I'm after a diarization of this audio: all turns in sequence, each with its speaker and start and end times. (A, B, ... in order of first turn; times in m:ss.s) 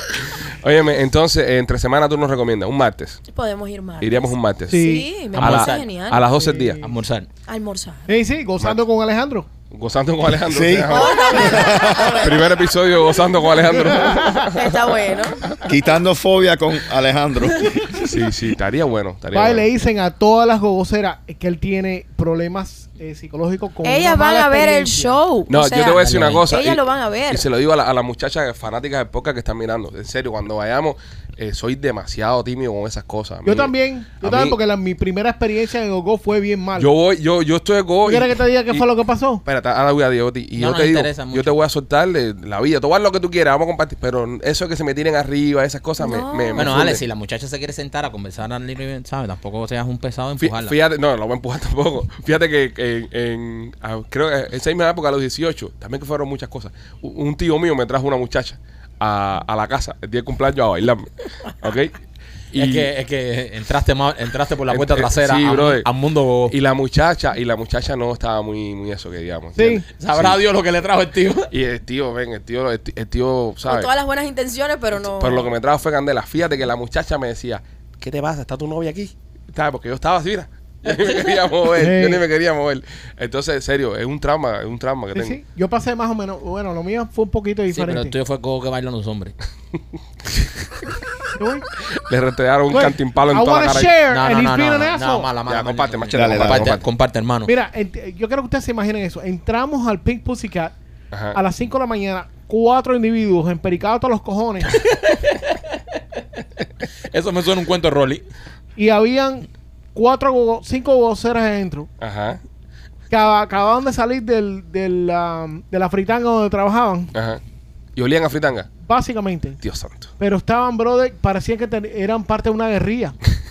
0:00.6-0:03.2 A
0:03.3-0:06.2 B
0:04.0-0:06.8 A
0:04.7-0:05.1 C
0:05.4-0:05.9 D
0:06.3-0:06.9 C
0:06.8-0:07.3 D
0:07.5-0:08.1 B
0:08.1-0:09.5 C
0:09.7-0:14.6 A
0:10.4-0:12.4 E
0:10.9-0:12.5 B
0:13.7-0:14.5 C
0:14.5-0:15.4 B
0:15.6-0:18.1 E
0:18.0-0:19.7 A
0:19.3-0:25.2 C
0:23.8-0:27.4 B
0:25.5-0:34.6 A
0:26.0-0:26.5 D
0:33.4-0:36.9 C
0:36.8-0:38.8 A
0:38.0-0:39.4 C
0:39.4-0:47.0 A
0:40.6-0:41.6 D
0:46.0-0:46.8 B
0:46.6-0:50.8 D
0:50.4-1:02.0 A
1:02.5-1:02.9 A
1:02.6-1:06.6 D
1:04.7-1:05.9 A
1:06.5-1:10.4 A
1:09.6-1:09.9 C
1:10.0-1:11.5 D
1:11.5-1:13.9 A
1:13.6-1:15.5 B
1:15.0-1:25.4 A
1:21.0-1:21.4 D
1:21.7-1:22.2 C
1:25.1-1:28.2 C
1:27.7-1:29.3 D
1:31.4-1:31.6 C
1:32.0-1:34.0 A
1:32.7-1:35.3 C
1:34.1-1:37.5 D
1:35.4-1:36.8 A
1:36.1-1:36.8 E
1:37.4-1:40.8 C
1:41.1-1:41.4 A
1:41.3-1:44.8 C
1:44.7-1:45.8 D
1:47.1-1:48.2 D
1:48.8-1:51.9 C
1:52.0-1:52.4 A
1:53.1-1:57.1 C
1:57.1-1:57.4 A
1:58.0-1:58.7 A
1:58.8-1:59.6 C
1:59.6-2:00.1 A
2:00.2-2:03.2 C